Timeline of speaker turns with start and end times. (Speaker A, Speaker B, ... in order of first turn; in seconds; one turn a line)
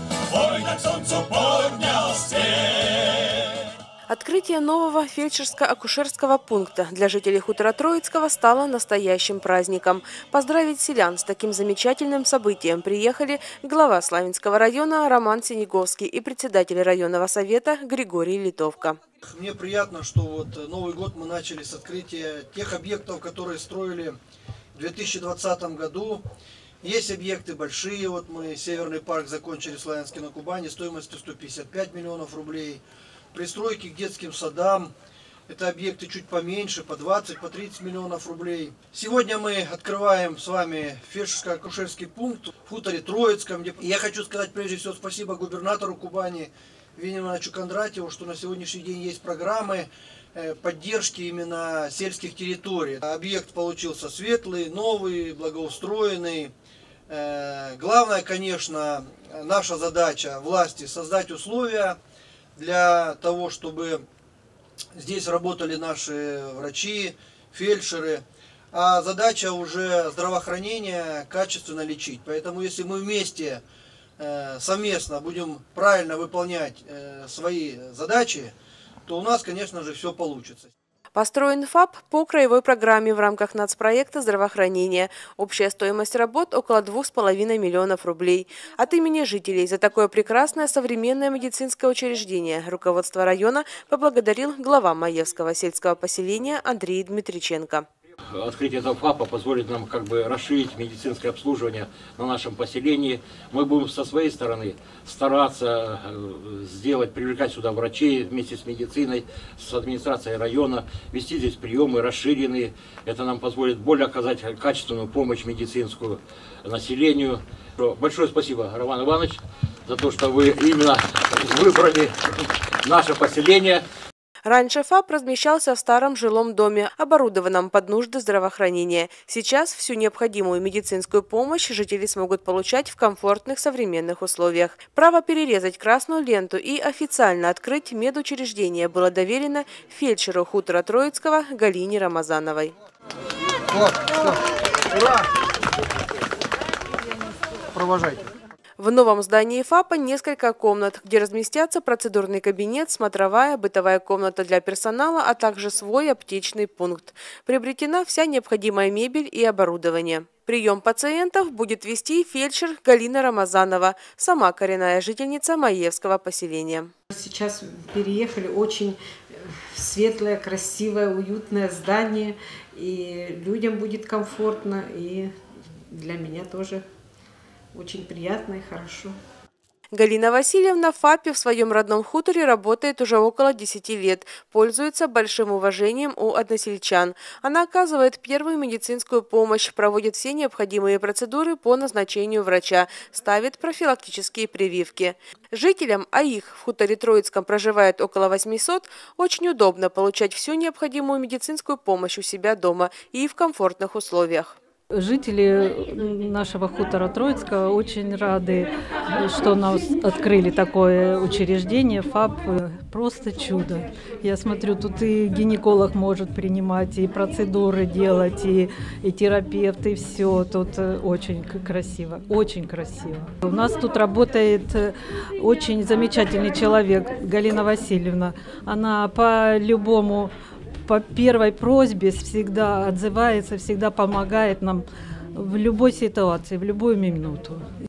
Speaker A: 4.1-19.0
Speaker B: 19.2-24.2
Speaker B: 24.7-26.2
Speaker B: 26.8-32.8
Speaker B: 33.3-34.9
Speaker B: 35.5-56.5
Speaker B: 57.1-62.0
Speaker B: 62.5-64.0
Speaker B: 64.9-73.6
Speaker B: 74.2-78.5
Speaker B: 79.0-80.7
Speaker A: 81.2-97.8
Speaker C: 98.3-123.8
Speaker A: 124.4-142.7
Speaker B: 143.7-144.4
Speaker B: 144.9-145.3
Speaker B: 147.7-148.3
Speaker A: 148.8-166.9
Speaker D: 167.1-175.3
Speaker D: 175.9-176.8
Speaker D: 177.7-179.1
Speaker A: 179.9-204.6
Speaker E: 204.9-230.3
Speaker E: 230.8-237.6